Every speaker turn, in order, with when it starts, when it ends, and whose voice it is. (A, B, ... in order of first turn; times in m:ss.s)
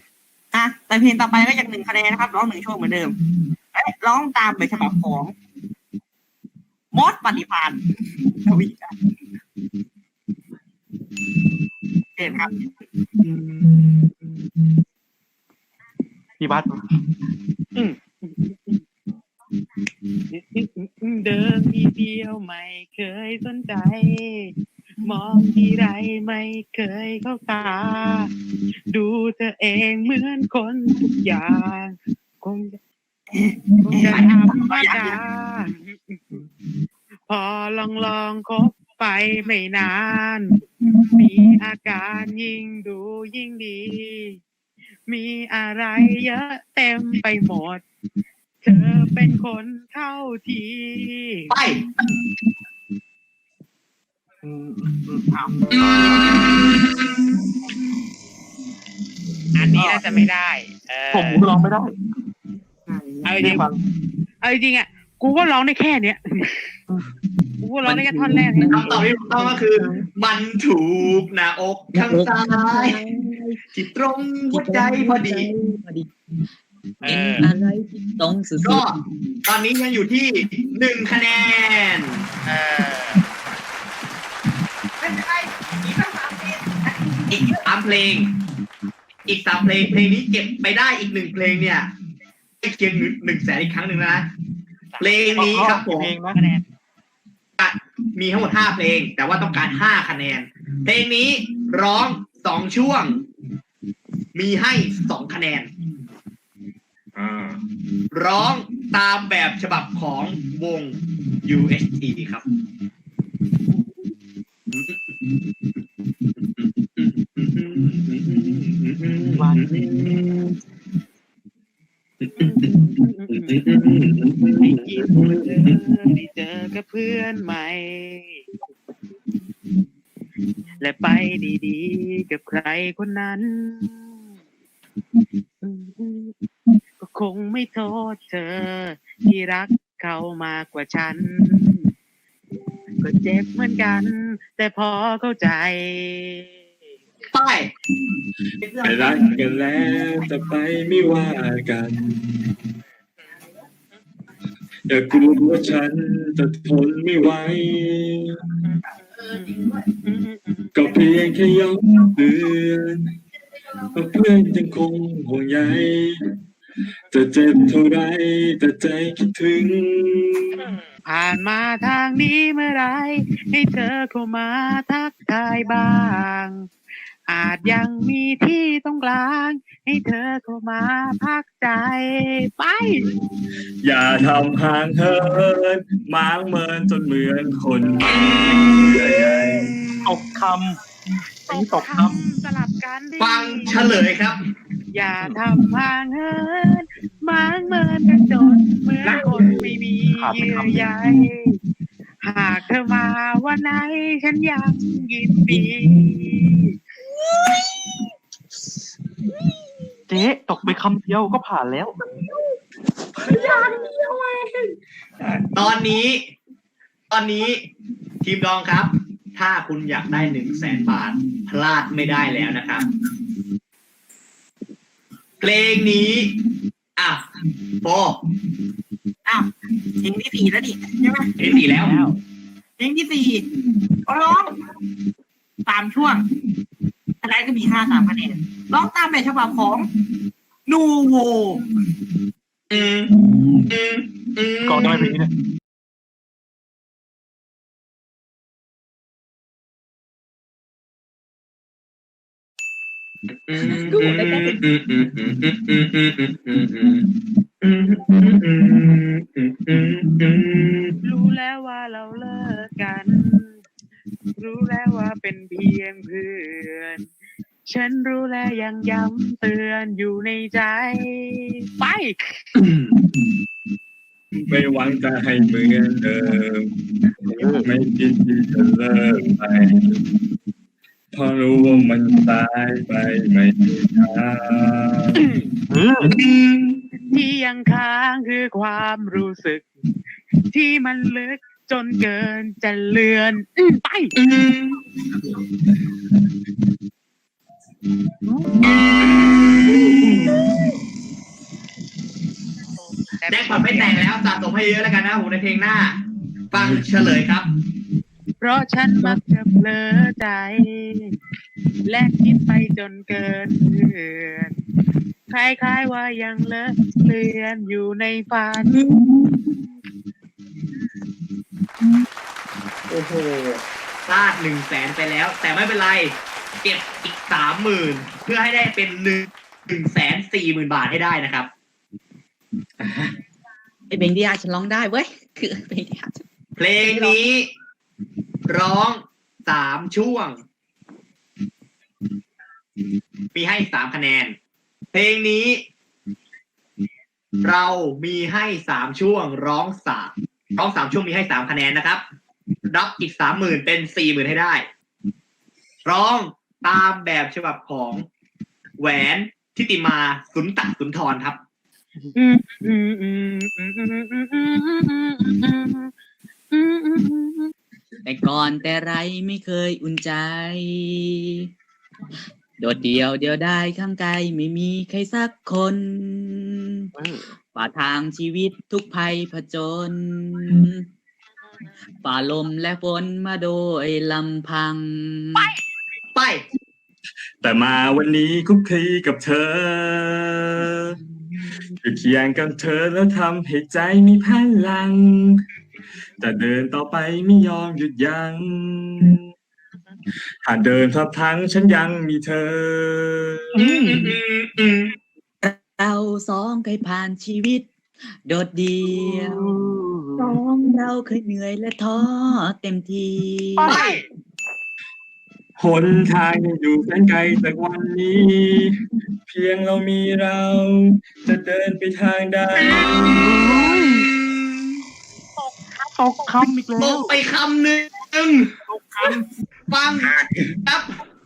0:00.5-0:03.2 A
0:03.7-0:05.3 A
0:06.9-0:08.9 A
0:12.2-0:12.5 A
0:16.4-0:16.8 B
0:17.8-0:18.8 C
0:20.3-0:24.5 C
0:25.0-0:28.3 C
0:28.9-0:32.8 C
0:33.3-0:35.1 A
0:33.8-0:36.2 C
0:34.0-0:34.3 D
0:37.3-0:40.5 C
0:41.1-0:44.4 C
0:45.1-0:47.8 C
0:48.6-0:51.5 C
0:51.5-0:51.8 D
0:54.4-0:55.6 B
0:55.7-0:56.4 D
0:56.1-0:56.4 A
0:59.6-1:01.5 C
0:59.7-1:00.1 A
1:01.1-1:02.0 B
1:02.9-1:03.3 A
1:03.2-1:03.6 C
1:03.4-1:03.8 B
1:04.4-1:06.8 C
1:07.6-1:09.0 C
1:07.8-1:09.4 E
1:08.7-1:13.0 D
1:11.9-1:13.6 E
1:13.7-1:15.5 D
1:14.5-1:16.1 E
1:17.0-1:18.9 E
1:17.0-1:17.4 C
1:18.6-1:18.9 D
1:19.4-1:22.2 D
1:22.5-1:22.8 C
1:25.0-1:27.6 A
1:27.3-1:28.3 D
1:29.3-1:31.9 D
1:32.6-1:34.3 D
1:34.9-1:35.6 C
1:35.0-1:36.1 D
1:35.4-1:36.4 B
1:36.3-1:36.6 C
1:37.6-1:43.2 D
1:44.3-1:45.7 D
1:47.2-1:47.6 F
1:48.1-1:52.4 D
1:54.7-1:55.1 D
1:56.5-2:00.5 D
1:59.4-2:00.2 B
2:02.2-2:02.7 D
2:02.4-2:03.6 C
2:03.3-2:05.8 D
2:04.6-2:08.4 C
2:10.8-2:14.1 C
2:15.6-2:16.3 C
2:17.0-2:21.9 C
2:23.0-2:26.6 C
2:27.3-2:27.7 D
2:28.7-2:29.1 D
2:28.8-2:32.4 F
2:34.9-2:38.4 F
2:38.8-2:39.5 C
2:40.0-2:40.7 C
2:40.7-2:43.0 F
2:43.9-2:46.1 F
2:47.1-2:50.7 F
2:51.0-2:56.7 C
2:57.3-3:03.1 C
3:03.8-3:09.8 F
3:10.0-3:10.8 B
3:11.5-3:12.2 B
3:11.5-3:13.8 C
3:13.2-3:14.4 D
3:14.9-3:21.6 C
3:19.1-3:19.5 F
3:20.1-3:21.1 B
3:22.2-3:26.7 C
3:30.1-3:32.0 B
3:33.2-3:34.7 F
3:35.2-3:35.5 F
3:35.5-3:36.3 D
3:37.1-3:37.6 D
3:38.2-3:42.8 D
3:45.4-3:46.3 D
3:47.0-3:47.2 D
3:47.8-3:48.2 D
3:50.0-3:51.6 A
3:51.4-3:52.1 D
3:52.8-3:53.5 A
3:54.1-3:54.6 A
3:55.6-3:56.3 A
3:57.2-3:59.9 A
4:00.6-4:01.6 A
4:02.7-4:03.1 D
4:03.7-4:05.2 D
4:04.6-4:05.3 B
4:13.5-4:17.0 D
4:13.6-4:14.5 E
4:17.6-4:20.9 D
4:21.0-4:23.5 C
4:24.4-4:27.1 C
4:27.7-4:32.4 C
4:32.6-4:32.9 D
4:34.4-4:36.7 F
4:37.3-4:40.0 F
4:37.3-4:37.7 B
4:41.1-4:45.3 F
4:45.7-4:46.1 B
4:46.2-4:46.8 D
4:47.1-4:49.6 C
4:50.4-4:54.1 C
4:54.2-4:54.8 D
4:58.7-5:00.1 D
5:03.2-5:04.0 C
5:03.3-5:06.0 D
5:06.5-5:07.5 D
5:08.4-5:11.1 C
5:11.8-5:14.5 C
5:15.3-5:18.8 C
5:22.9-5:31.5 D
5:32.8-5:33.1 F
5:33.9-5:36.2 E
5:36.6-5:37.5 D
5:36.8-5:37.3 E
5:38.5-5:40.4 D
5:43.3-5:44.3 D
5:44.9-5:45.6 D
5:47.4-5:52.0 D
5:52.7-5:54.6 D
5:55.8-5:58.0 D
5:58.8-6:01.4 D
6:02.1-6:05.9 C
6:06.5-6:07.5 C
6:08.0-6:11.5 E
6:12.6-6:16.9 E
6:17.0-6:17.2 B
6:17.5-6:20.9 E
6:22.0-6:25.5 E
6:26.1-6:26.4 D
6:27.4-6:31.0 F
6:31.8-6:35.4 F
6:36.2-6:39.2 F
6:40.4-6:43.5 F
6:43.6-6:44.9 D
6:43.6-6:44.1 B
6:45.4-6:47.7 E
6:48.2-6:49.4 E
6:48.9-6:50.3 B
6:50.2-6:53.8 E
6:53.6-6:54.0 C
6:53.6-6:54.0 B
6:53.6-6:53.9 D
6:55.6-6:58.7 F
6:59.3-7:03.3 F
7:03.1-7:04.1 B
7:05.4-7:06.5 C
7:06.0-7:07.1 B
7:06.8-7:08.5 D
7:08.7-7:09.2 A
7:09.7-7:10.1 D
7:10.6-7:10.9 D